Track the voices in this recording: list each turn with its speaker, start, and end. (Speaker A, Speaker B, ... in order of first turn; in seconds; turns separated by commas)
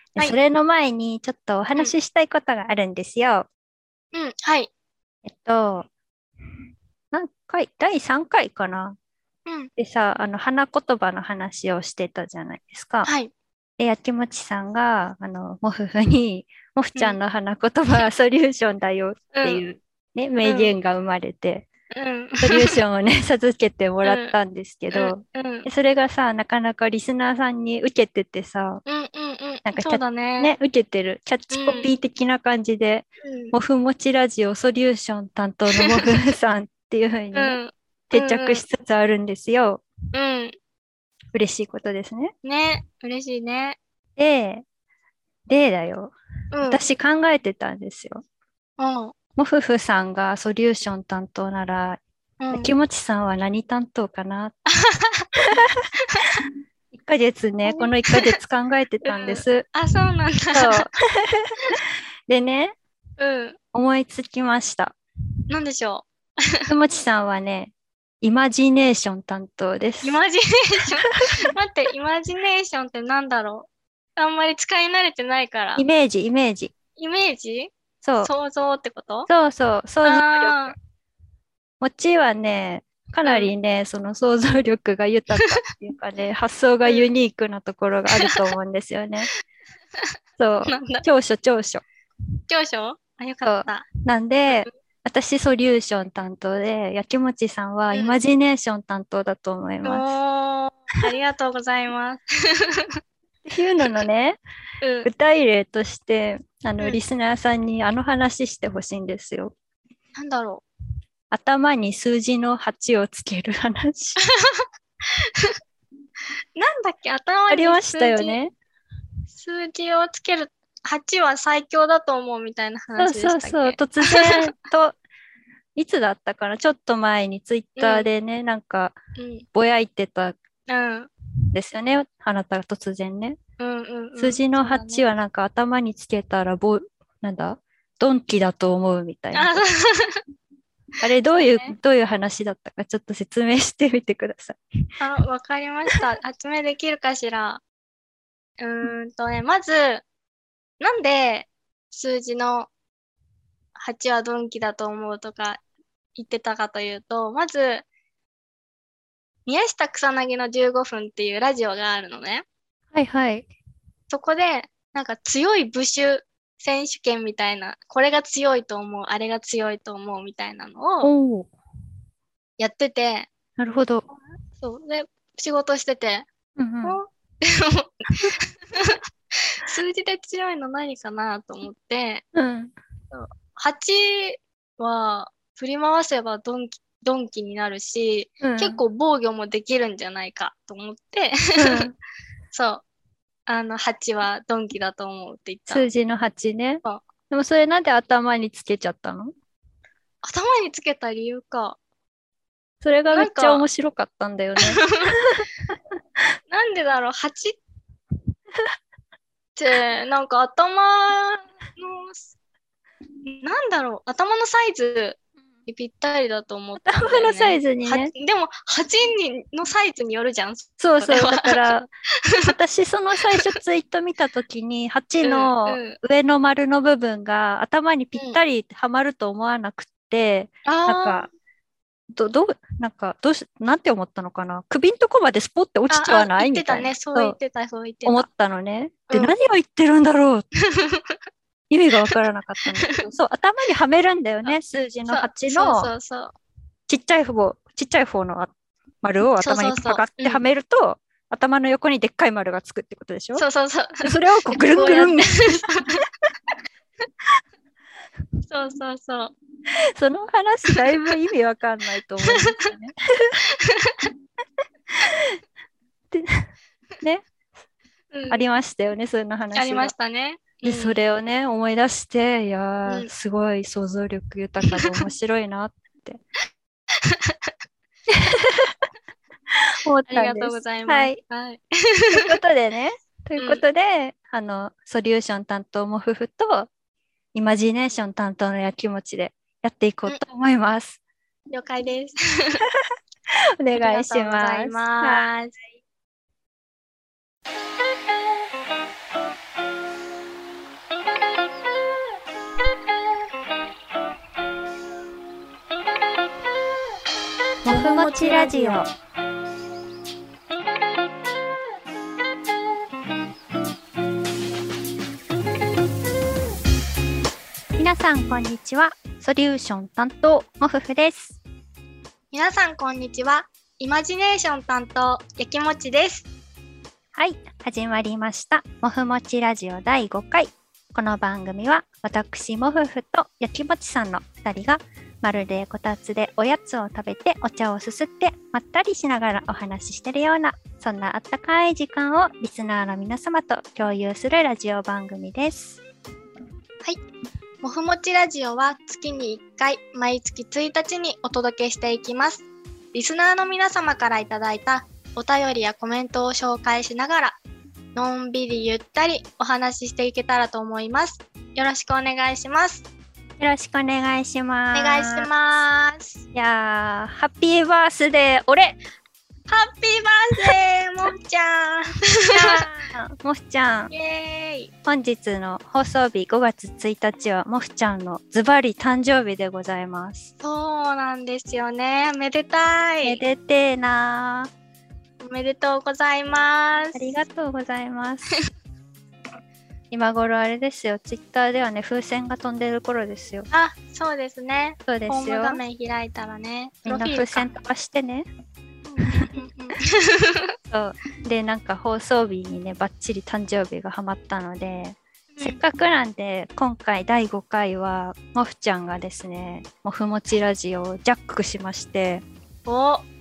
Speaker A: 0.1-3.5, Speaker B: 4.1-4.7, Speaker A: 5.2-5.9, Speaker A: 7.1-9.0, Speaker B: 9.5-9.7, Speaker A: 9.8-13.1, Speaker B: 13.1-13.3, Speaker A: 13.8-21.7, Speaker B: 19.3-19.6, Speaker B: 20.4-20.7, Speaker B: 21.9-22.8, Speaker A: 22.4-28.8, Speaker B: 24.1-24.3, Speaker B: 24.9-25.7, Speaker B: 28.9-30.5, Speaker A: 29.6-39.8, Speaker B: 31.5-31.9, Speaker B: 33.2-33.5, Speaker B: 37.3-38.6, Speaker B: 40.1-40.5, Speaker A: 41.3-42.3, Speaker B: 42.4-43.8, Speaker A: 44.2-44.6, Speaker A: 45.5-46.1, Speaker B: 46.5-46.8, Speaker A: 46.7-48.2, Speaker B: 48.8-49.1, Speaker A: 49.4-52.0, Speaker B: 52.4-52.7, Speaker A: 52.5-54.5, Speaker B: 54.7-55.3, Speaker A: 55.4-56.4, Speaker B: 56.1-56.4, Speaker A: 56.9-59.7, Speaker B: 57.6-58.4, Speaker B: 59.0-60.9, Speaker A: 60.5-62.8, Speaker B: 63.2-63.6, Speaker A: 63.7-65.0, Speaker B: 65.5-66.7, Speaker A: 66.7-70.2, Speaker B: 70.0-75.8, Speaker A: 75.8-76.7, Speaker B: 77.0-79.3, Speaker A: 78.0-78.3, Speaker A: 79.3-80.8, Speaker B: 80.0-80.8, Speaker A: 81.8-89.3, Speaker B: 83.2-83.5, Speaker A: 90.4-91.8, Speaker B: 90.6-91.0, Speaker B: 92.5-93.9, Speaker A: 93.4-100.2, Speaker B: 97.9-98.2, Speaker B: 99.8-103.0, Speaker A: 103.5-104.4, Speaker B: 104.8-105.1, Speaker A: 105.0-109.5, Speaker B: 110.2-110.6, Speaker A: 111.3-114.2, Speaker B: 114.2-115.6, Speaker B: 116.6-118.4, Speaker A: 117.5-118.5, Speaker B: 119.3-124.5, Speaker A: 123.0-125.0, Speaker A: 125.8-129.0, Speaker B: 127.8-128.1, Speaker B: 129.2-129.4, Speaker A: 129.5-130.4, Speaker B: 130.7-131.1, Speaker A: 131.5-133.4, Speaker B: 133.6-135.0, Speaker A: 134.2-139.7, Speaker B: 139.3-140.2, Speaker A: 141.0-144.6, Speaker B: 141.4-141.7, Speaker B: 145.0-147.6, Speaker B: 148.6-150.1, Speaker B: 150.8-152.7, Speaker B: 153.8-155.6, Speaker B: 156.2-157.8, Speaker B: 159.5-162.4, Speaker A: 162.9-163.5, Speaker B: 164.1-171.1, Speaker A: 171.0-171.5, Speaker B: 172.6-173.3, Speaker A: 173.6-174.1, Speaker B: 174.6-176.3, Speaker A: 176.6-177.0, Speaker B: 176.8-182.2, Speaker A: 182.3-182.8, Speaker B: 183.1-191.9, Speaker A: 188.4-188.8, Speaker A: 191.6-191.9, Speaker B: 192.5-192.8, Speaker B: 193.5-195.9, Speaker A: 195.7-199.3, Speaker B: 200.2-201.8, Speaker A: 202.8-205.8, Speaker B: 203.1-203.7, Speaker B: 204.6-205.2, Speaker B: 206.5-207.6, Speaker B: 209.6-212.3, Speaker B: 213.2-221.7, Speaker A: 216.8-218.1, Speaker A: 220.8-221.9, Speaker B: 222.2-222.5, Speaker A: 222.4-231.3, Speaker B: 225.2-226.0, Speaker B: 228.1-228.4, Speaker B: 230.7-231.3, Speaker A: 232.1-237.4, Speaker B: 235.9-238.3, Speaker A: 238.1-240.5, Speaker B: 240.6-241.2, Speaker A: 241.7-245.9, Speaker B: 242.8-243.1, Speaker B: 245.1-246.3, Speaker A: 246.9-253.4, Speaker B: 249.4-250.4, Speaker B: 253.4-256.0, Speaker A: 254.0-255.6, Speaker B: 258.5-259.3, Speaker A: 260.0-263.4, Speaker B: 262.3-262.7, Speaker B: 263.4-264.1, Speaker A: 264.9-265.4, Speaker A: 266.1-266.5, Speaker B: 268.1-268.4, Speaker A: 268.3-269.9, Speaker B: 269.6-271.0, Speaker A: 270.6-276.2, Speaker B: 272.9-273.1, Speaker B: 274.7-275.1, Speaker B: 276.9-277.5, Speaker A: 278.1-278.8, Speaker A: 279.5-281.2, Speaker B: 279.8-282.3, Speaker A: 282.1-286.7, Speaker B: 283.4-283.6, Speaker A: 287.3-291.0, Speaker B: 291.5-292.6, Speaker A: 293.3-295.3, Speaker B: 293.8-295.6, Speaker A: 307.6-308.9, Speaker B: 307.7-308.9, Speaker A: 317.8-321.4, Speaker B: 322.3-326.3, Speaker A: 327.1-345.8, Speaker B: 347.6-357.4, Speaker B: 357.9-362.9, Speaker A: 363.4-365.3, Speaker B: 364.7-366.2, Speaker A: 366.3-368.8, Speaker B: 369.5-372.6, Speaker A: 372.3-373.9, Speaker B: 373.9-374.7, Speaker A: 374.9-380.3, Speaker B: 380.4-383.2, Speaker A: 383.0-384.5, Speaker B: 385.2-387.2, Speaker A: 386.9-388.4, Speaker A: 389.9-393.5, Speaker B: 393.5-397.5, Speaker A: 394.9-395.6, Speaker A: 396.9-398.3, Speaker B: 398.9-400.5, Speaker A: 400.7-412.2, Speaker B: 405.3-405.6, Speaker B: 412.7-413.1